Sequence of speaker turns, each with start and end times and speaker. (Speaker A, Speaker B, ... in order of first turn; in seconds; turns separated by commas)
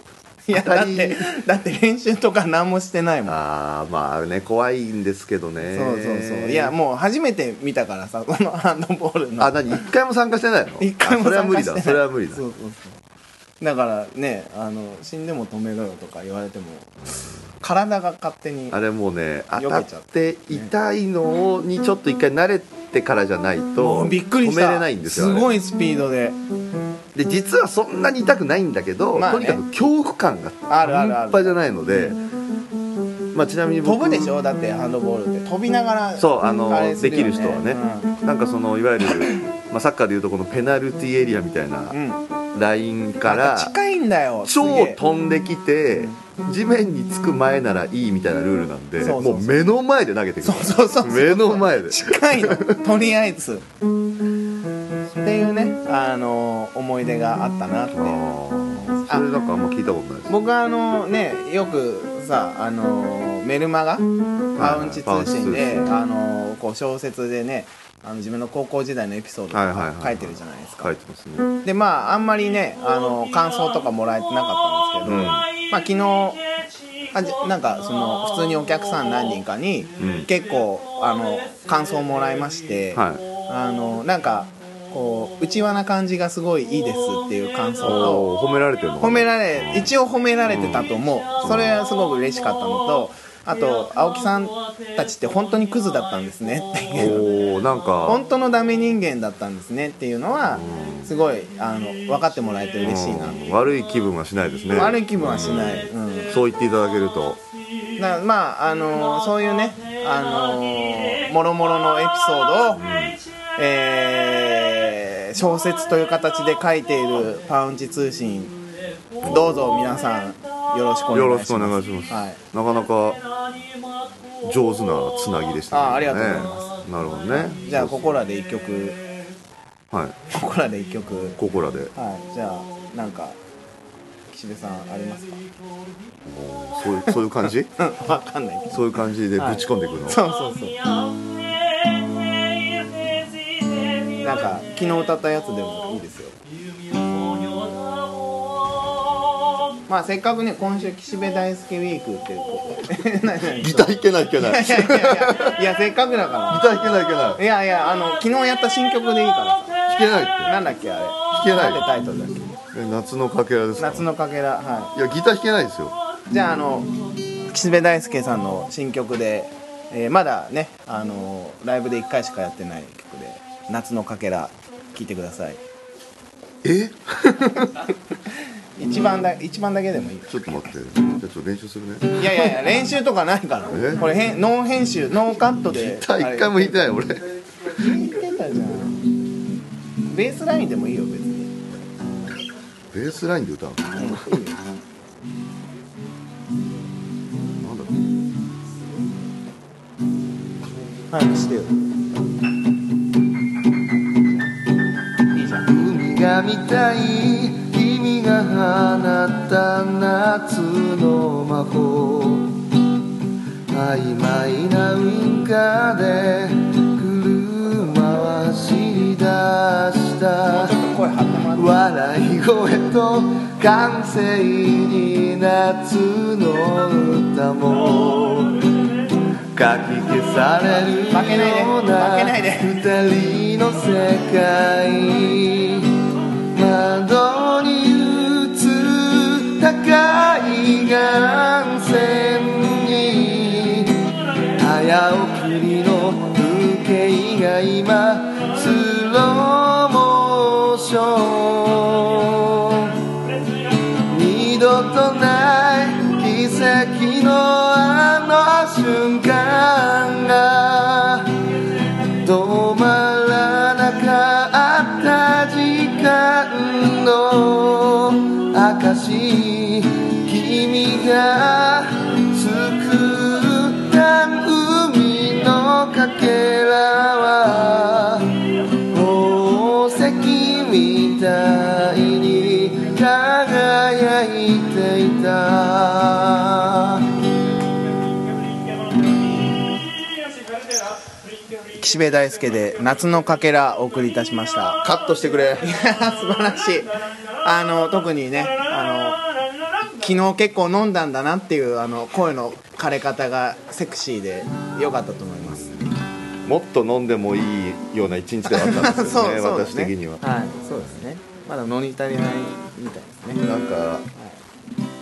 Speaker A: 0.5-3.3, Speaker B: 0.5-1.2, Speaker B: 3.2-6.7, Speaker A: 5.7-9.8, Speaker B: 9.4-12.4, Speaker A: 10.8-13.0, Speaker A: 13.6-18.8, Speaker B: 18.7-25.5, Speaker A: 19.6-20.7, Speaker A: 23.8-26.4, Speaker B: 27.1-32.2, Speaker A: 29.1-29.6, Speaker A: 30.7-32.2, Speaker B: 33.3-34.3, Speaker A: 33.8-38.1, Speaker B: 36.2-42.0, Speaker A: 41.9-42.2, Speaker B: 42.5-43.7, Speaker A: 43.2-45.0, Speaker B: 44.4-52.8, Speaker A: 49.0-49.6, Speaker A: 50.4-53.6, Speaker A: 55.1-58.2, Speaker B: 57.9-60.3, Speaker A: 58.8-59.2, Speaker A: 60.3-70.9, Speaker B: 64.5-65.9, Speaker B: 69.5-71.5, Speaker A: 71.6-76.4, Speaker B: 75.0-75.5, Speaker A: 77.1-88.3, Speaker B: 80.0-80.3, Speaker B: 82.9-83.2, Speaker B: 87.8-89.9, Speaker A: 89.0-97.2, Speaker B: 90.5-91.8, Speaker B: 96.9-98.2, Speaker A: 98.0-103.5, Speaker B: 100.5-101.1, Speaker B: 102.8-107.4, Speaker A: 104.7-106.3, Speaker A: 108.0-112.8, Speaker B: 112.7-113.2, Speaker A: 113.6-118.6, Speaker B: 119.2-120.0, Speaker A: 119.2-122.4, Speaker B: 121.1-123.2, Speaker B: 124.4-128.2, Speaker A: 125.7-129.0, Speaker B: 129.9-130.2, Speaker A: 130.3-131.4, Speaker B: 131.4-131.9, Speaker A: 131.9-133.4, Speaker A: 134.3-135.4, Speaker B: 136.2-137.7, Speaker A: 137.8-138.8, Speaker B: 138.7-140.2, Speaker A: 139.3-140.8, Speaker A: 144.2-146.3, Speaker A: 149.9-156.6, Speaker B: 153.6-155.6, Speaker B: 156.5-157.4, Speaker A: 157.3-159.8, Speaker B: 159.9-160.5, Speaker A: 160.4-162.5, Speaker B: 161.3-161.9, Speaker B: 162.7-164.1, Speaker A: 163.8-164.9, Speaker B: 164.9-165.9, Speaker A: 166.3-166.9, Speaker A: 167.5-175.6, Speaker B: 176.6-177.8, Speaker A: 178.8-180.5, Speaker B: 180.2-182.6, Speaker A: 182.2-186.9, Speaker B: 183.7-184.1, Speaker B: 185.3-187.2, Speaker A: 187.7-189.0, Speaker A: 190.1-191.5, Speaker B: 192.9-194.5, Speaker A: 193.9-194.6, Speaker B: 197.6-197.9, Speaker A: 201.1-201.7, Speaker A: 205.3-205.7, Speaker B: 205.6-212.6, Speaker B: 213.7-220.8, Speaker A: 220.4-221.8, Speaker B: 221.5-228.7, Speaker B: 229.5-253.1, Speaker A: 230.9-232.8, Speaker B: 253.9-261.5, Speaker B: 262.0-287.1, Speaker A: 291.8-294.8, Speaker B: 294.8-295.7, Speaker A: 295.6-296.9, Speaker A: 297.4-299.2, Speaker A: 300.0-305.7, Speaker B: 306.4-310.2, Speaker A: 308.5-313.4, Speaker B: 313.4-314.1, Speaker A: 314.1-314.4